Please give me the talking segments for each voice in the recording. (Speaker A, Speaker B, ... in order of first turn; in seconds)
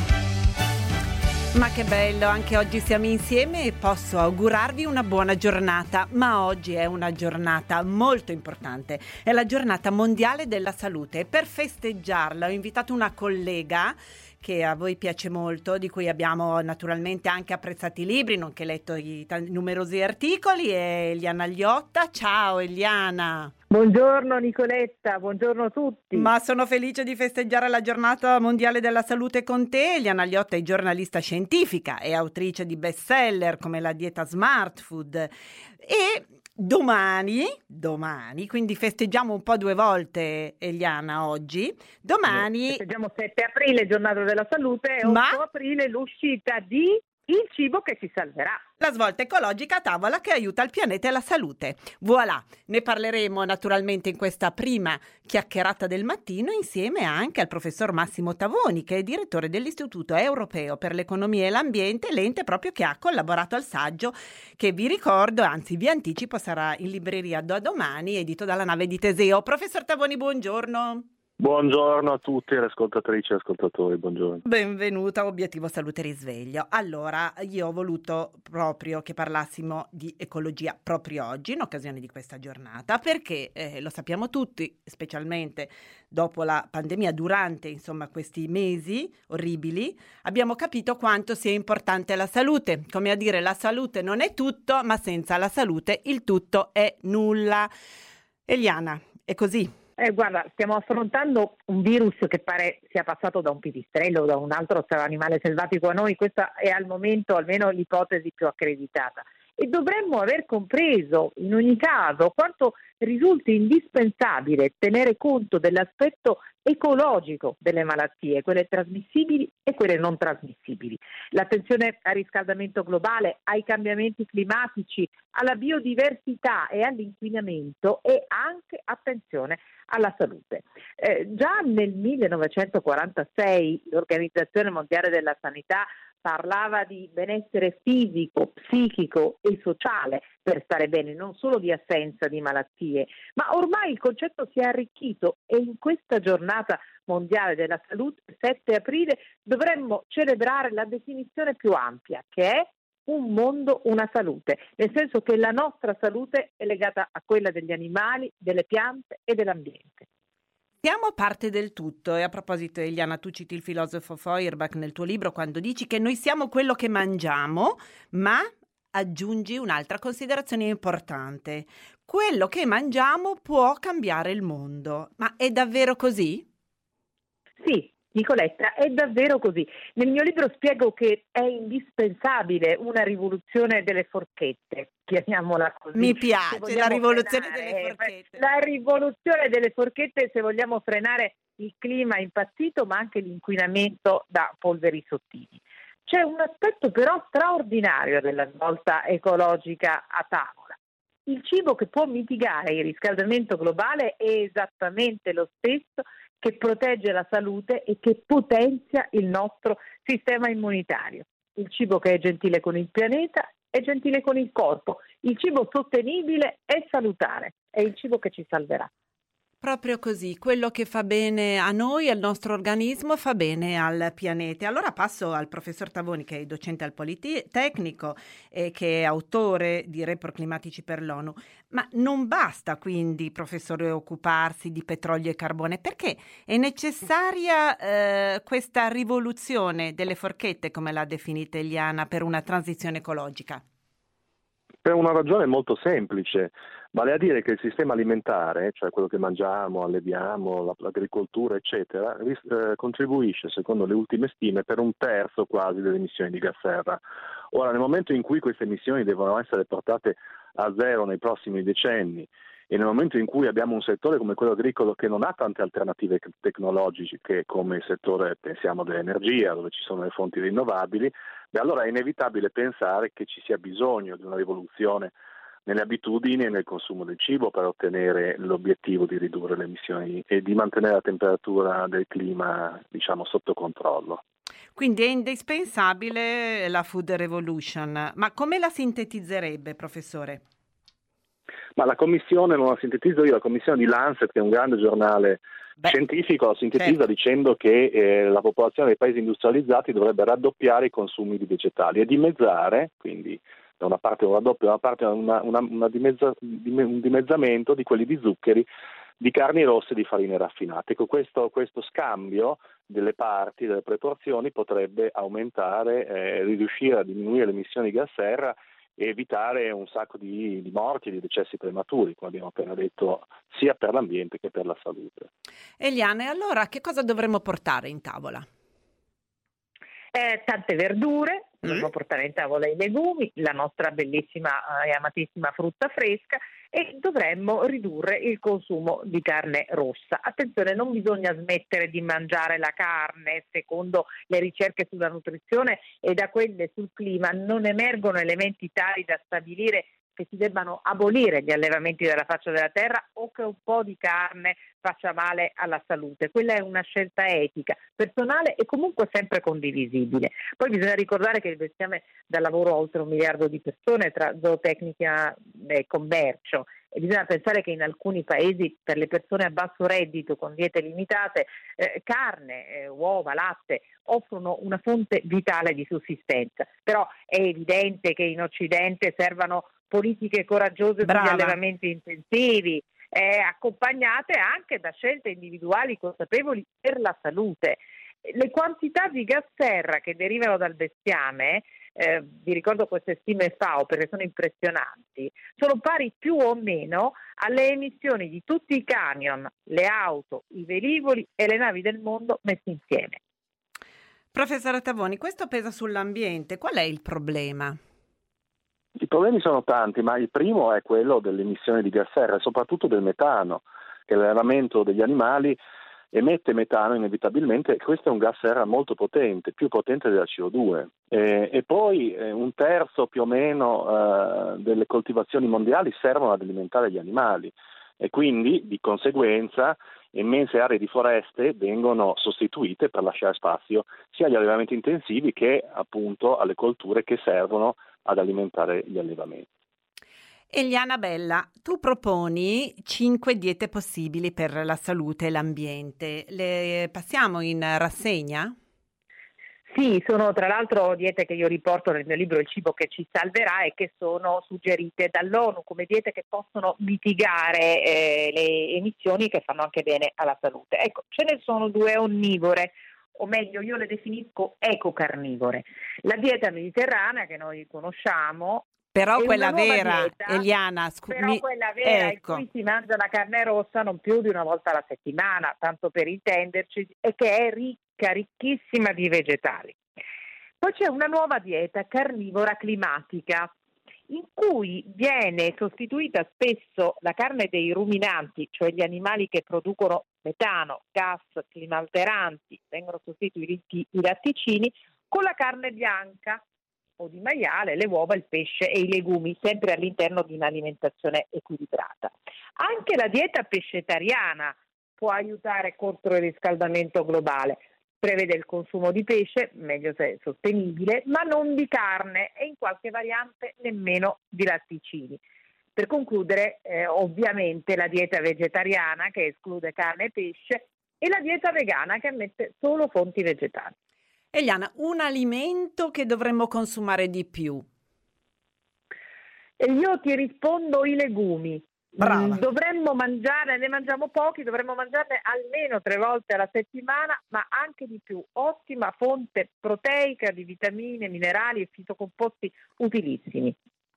Speaker A: 1.5-23.5, 26.1-35.3, 35.8-42.8, 45.0-45.4, 48.8-71.0, 74.4-97.7, 98.5-99.7, 160.8-176.4, 185.9-188.4, 219.6-243.6, 284.7-290.4, 325.8-328.4, 381.0-381.6, 404.3-407.8, 440.5-448.5, 468.9-472.4, 524.3-527.6, 532.0-532.4
Speaker B: 23.7-26.3, 42.3-48.6, 100.0-160.1, 177.6-218.9, 330.1-403.2, 449.7-470.5, 471.1-479.8, 480.6-483.5, 484.1-496.4, 497.0-515.2, 515.8-523.7, 529.6-543.5
Speaker C: 71.4-74.4, 244.8-257.0, 257.5-275.1, 275.6-284.2, 291.8-308.7, 309.2-325.3, 409.0-415.6, 416.1-439.5